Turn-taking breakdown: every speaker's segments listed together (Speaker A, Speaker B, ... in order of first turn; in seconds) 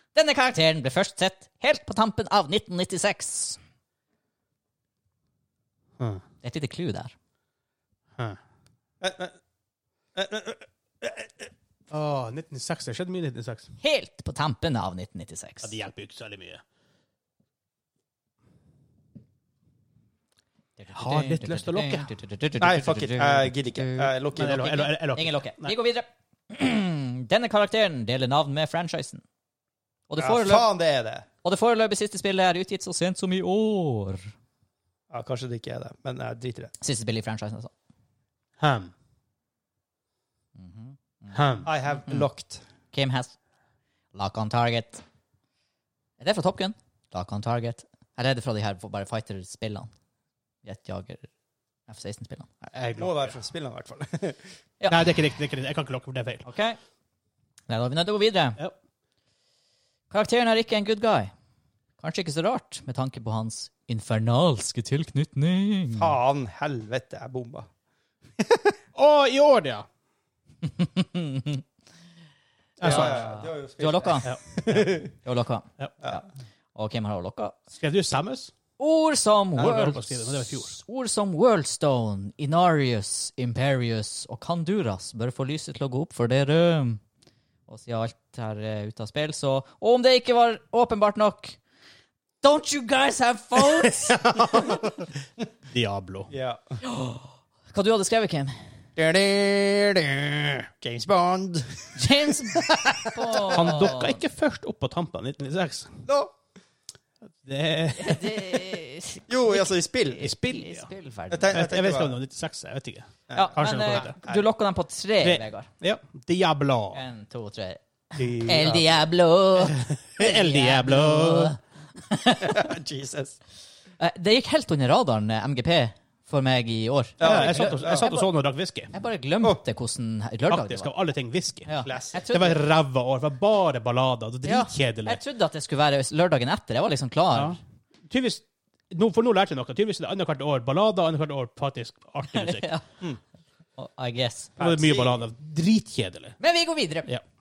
Speaker A: 0.1-3.6, 6.4-7.1, 13.8-15.7, 20.8-24.1, 24.8-29.2, 30.1-30.7, 31.4-34.3, 36.8-37.7, 40.6-42.2, 42.9-43.4, 44.1-45.0, 46.2-49.9, 50.6-51.3, 51.9-52.5, 54.8-55.1, 56.4-56.8, 57.7-58.6, 60.1-61.3, 62.0-66.1, 70.6-71.6, 72.8-74.3, 75.2-77.6, 78.8-87.0, 87.7-91.6, 92.4-94.8, 96.8-98.5, 102.0-104.2, 108.0-111.6, 113.3-115.7, 116.9-122.7, 124.0-128.3, 128.9-130.9, 131.7-132.6, 134.4-137.6, 142.3-142.8, 143.8-144.5, 146.4-147.1
Speaker B: 9.0-9.3, 10.2-11.2, 22.6-24.9, 30.2-31.2, 35.1-36.7, 41.6-42.6, 52.9-54.4, 65.9-67.7, 68.4-68.7, 72.8-75.1, 79.6-79.9, 96.3-96.6, 99.0-103.8, 106.0-106.3, 109.3-110.3, 111.3-112.2, 113.3-114.5, 118.4-118.9, 122.4-123.3, 127.2-128.1, 131.8-132.2, 144.6-145.2
Speaker C: 11.9-13.7, 15.6-16.6, 20.9-22.1, 24.4-25.7, 38.6-38.9, 41.3-41.7, 52.7-53.4, 54.9-56.4, 68.9-69.8, 72.8-73.3, 74.2-75.0, 77.8-78.5, 79.6-80.7, 93.8-95.0, 95.7-96.3, 103.5-106.0, 107.4-108.7, 110.2-110.9, 111.5-114.2, 115.2-117.0, 119.6-121.5, 127.2-128.9, 130.5-135.2, 138.1-142.7, 144.6-146.4